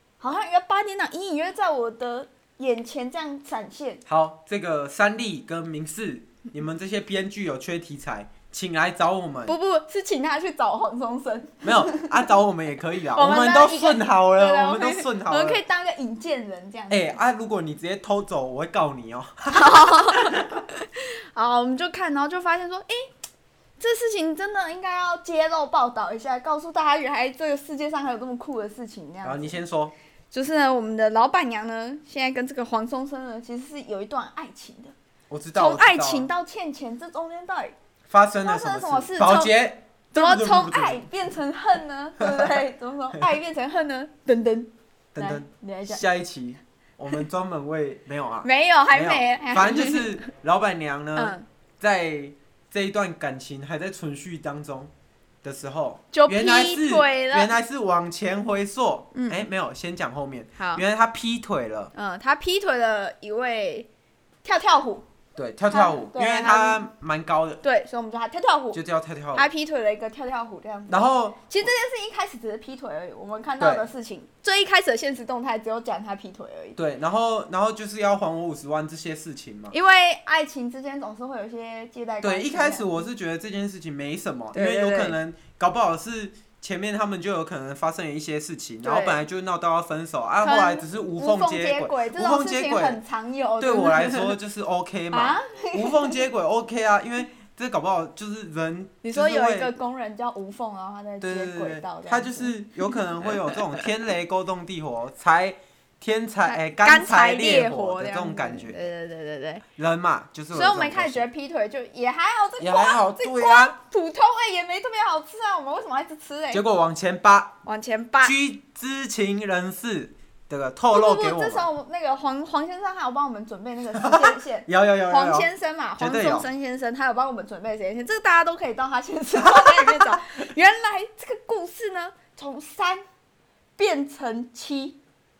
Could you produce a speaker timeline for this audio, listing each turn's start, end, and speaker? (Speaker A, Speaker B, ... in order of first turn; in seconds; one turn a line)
Speaker A: 0.2-4.0
Speaker B: 4.0-9.5
Speaker A: 9.4-12.2
Speaker B: 11.6-15.6
Speaker A: 13.1-17.1
Speaker B: 16.9-20.5
Speaker A: 19.5-23.0
Speaker A: 23.8-29.6
Speaker B: 29.2-29.9
Speaker A: 30.3-34.9
Speaker B: 35.3-36.3
Speaker A: 35.5-37.7
Speaker B: 38.1-41.0
Speaker A: 38.4-39.5
Speaker A: 40.1-46.0
Speaker B: 42.2-42.6
Speaker B: 45.1-54.9
Speaker A: 48.4-50.2
Speaker A: 51.1-51.4
Speaker B: 55.4-61.9
Speaker A: 56.1-57.5
Speaker A: 59.1-59.5
Speaker A: 60.6-60.8
Speaker A: 61.9-63.9
Speaker A: 64.4-65.0
Speaker B: 65.3-67.6
Speaker A: 65.7-66.8
Speaker A: 67.6-68.8
Speaker B: 68.7-69.5
Speaker A: 69.3-76.8
Speaker B: 70.9-71.7
Speaker B: 73.6-73.9
Speaker B: 76.8-79.7
Speaker A: 79.7-83.0
Speaker B: 82.2-93.0
Speaker A: 84.5-85.2
Speaker A: 88.8-89.2
Speaker A: 90.4-94.3
Speaker B: 93.6-99.7
Speaker A: 95.1-96.2
Speaker A: 99.0-103.6
Speaker B: 101.2-108.8
Speaker A: 106.5-109.6
Speaker B: 109.8-111.2
Speaker A: 110.5-116.6
Speaker B: 112.6-113.7
Speaker B: 116.5-117.5
Speaker A: 117.6-118.3
Speaker B: 118.2-121.7
Speaker A: 120.9-133.0
Speaker B: 124.0-126.5
Speaker B: 129.4-130.2
Speaker A: 133.8-135.0